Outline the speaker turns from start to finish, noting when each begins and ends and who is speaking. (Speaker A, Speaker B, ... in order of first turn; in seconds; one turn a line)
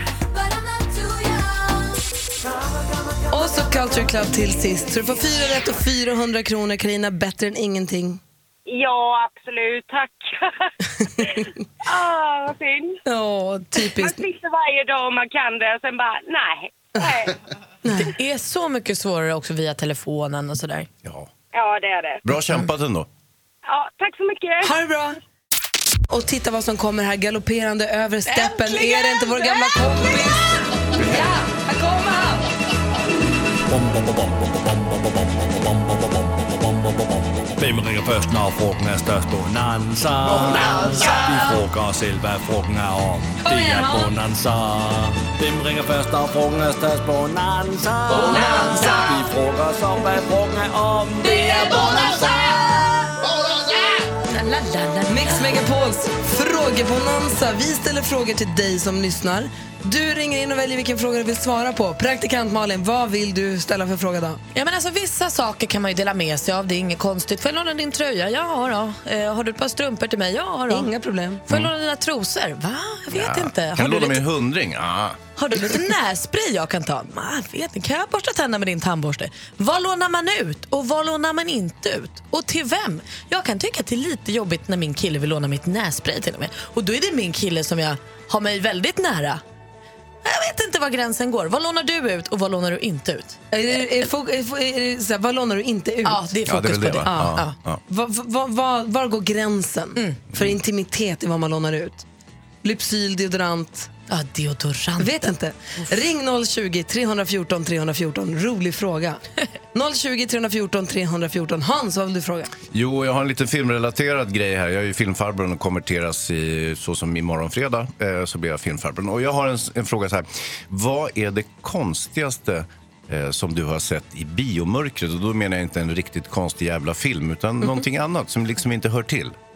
Speaker A: 3.3-8.2
Speaker B: 8.7-10.5
Speaker B: 11.8-13.0
Speaker A: 13.1-14.2
Speaker B: 13.9-17.3
Speaker A: 17.8-18.1
Speaker C: 18.0-20.9
Speaker D: 21.0-21.3
Speaker B: 21.5-22.2
Speaker D: 22.2-23.1
Speaker B: 23.7-24.7
Speaker A: 24.6-25.2
Speaker A: 26.1-30.5
Speaker D: 30.9-31.4
Speaker A: 31.1-32.4
Speaker E: 33.7-51.9
Speaker A: 43.7-44.0
Speaker A: 48.3-49.0
Speaker C: 48.5-48.9
Speaker C: 51.4-52.9
Speaker C: 54.3-55.5
Speaker A: 55.1-64.4
Speaker C: 64.5-70.9
Speaker A: 70.7-71.4
Speaker C: 71.5-74.2
Speaker D: 73.1-75.2
Speaker C: 75.4-89.4
Speaker C: 90.2-94.1
Speaker A: 93.5-96.2
Speaker C: 96.0-97.5
Speaker D: 96.5-97.8
Speaker A: 97.0-97.3
Speaker A: 97.9-102.0
Speaker A: 102.6-103.9
Speaker C: 104.1-105.9
Speaker A: 105.0-109.2
Speaker A: 109.7-112.5
Speaker D: 112.7-129.3